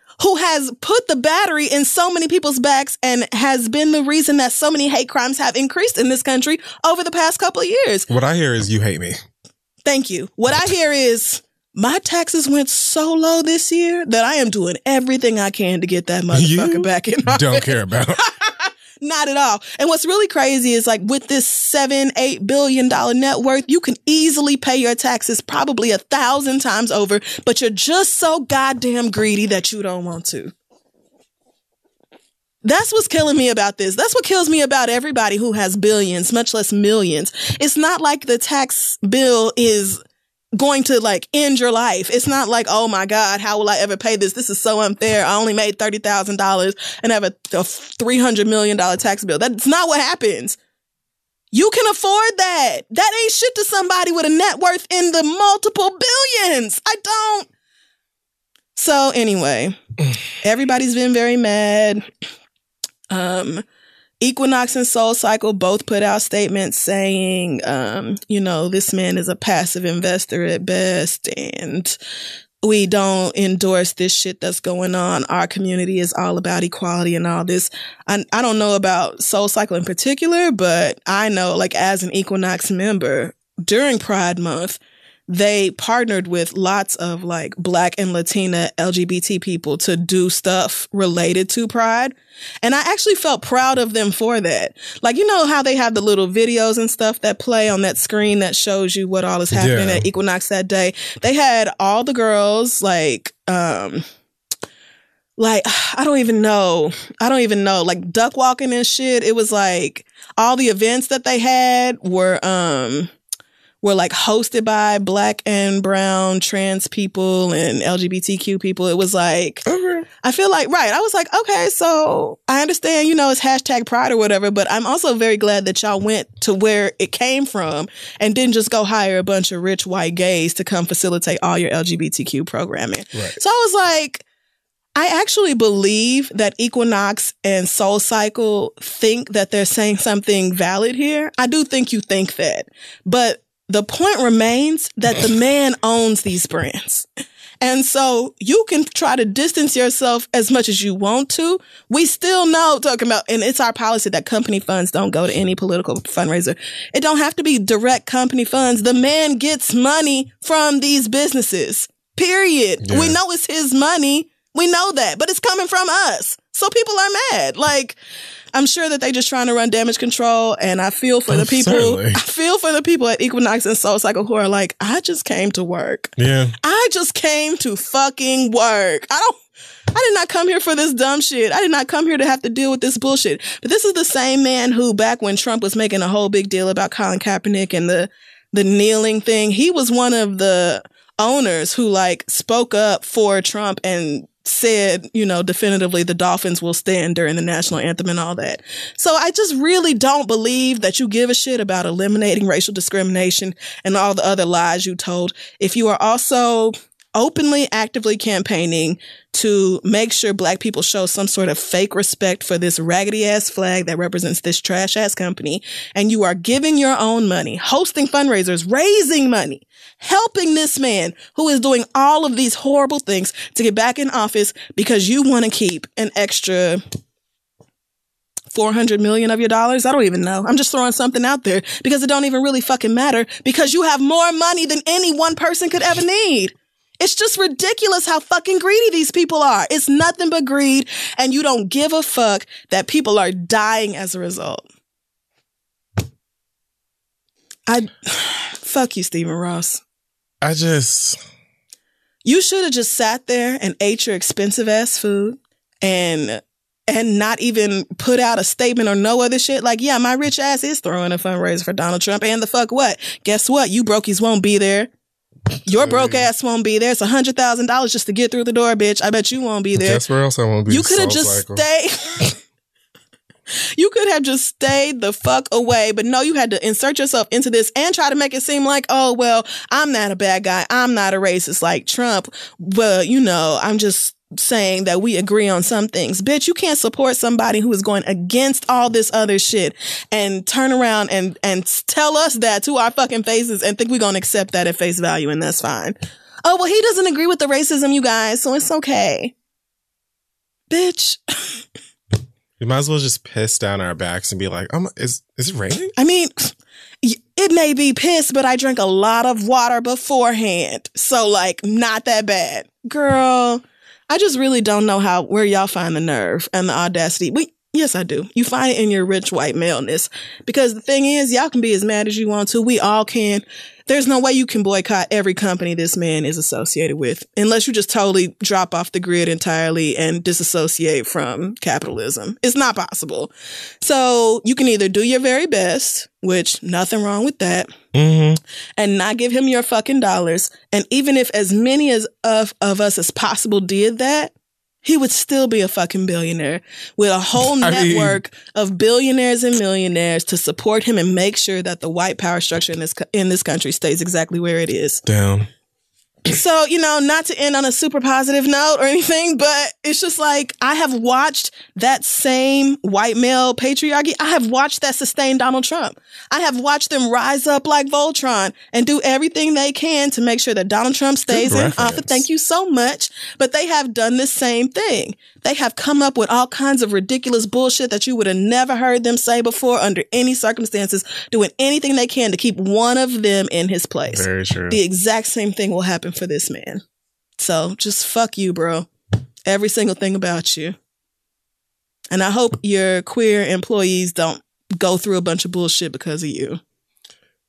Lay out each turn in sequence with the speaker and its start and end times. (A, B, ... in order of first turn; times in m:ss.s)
0:00.2-0:08.1 A
0:08.1-0:09.2 B
0:09.9-0:17.7 A
0:16.3-0:18.2 B
0:18.4-0:30.5 A
0:32.6-0:40.0 A
0:40.6-0:50.6 A
0:51.5-0:57.5 A
0:58.8-0:59.8 A
1:00.4-1:02.1 A
1:03.1-1:03.6 A
1:04.2-1:12.0 A
1:12.6-1:44.0 A
1:39.5-1:40.1 B
1:45.4-1:53.1 A
1:53.8-1:59.7 A
1:59.7-2:00.1 B
2:00.2-2:14.2 A
2:15.0-2:27.1 A
2:27.6-2:48.0 A
2:42.8-2:43.2 B
2:48.5-2:59.4 A
2:51.3-2:52.2 B
2:56.2-2:56.6 B
2:59.9-3:46.8 A
3:48.5-4:04.6 A
4:07.7-4:09.8 A
4:10.4-4:11.2 B
4:12.2-4:24.9 A
4:25.7-4:30.0 A
4:25.7-4:26.3 B
4:29.8-4:31.6 B
4:30.7-4:32.3 A
4:33.8-4:59.3 A
5:00.7-5:01.6 A
5:02.6-5:05.9 B
5:06.0-5:06.5 A
5:07.0-5:37.7 A
5:37.9-5:38.4 B
5:38.8-5:44.3 A
5:44.8-5:55.0 A
5:47.4-5:48.2 B
5:55.1-5:55.5 B
5:56.2-6:26.8 A
6:11.3-6:12.3 B
6:24.1-6:24.8 B
6:27.4-6:28.9 A
6:29.5-6:30.8 A
6:32.1-6:36.6 A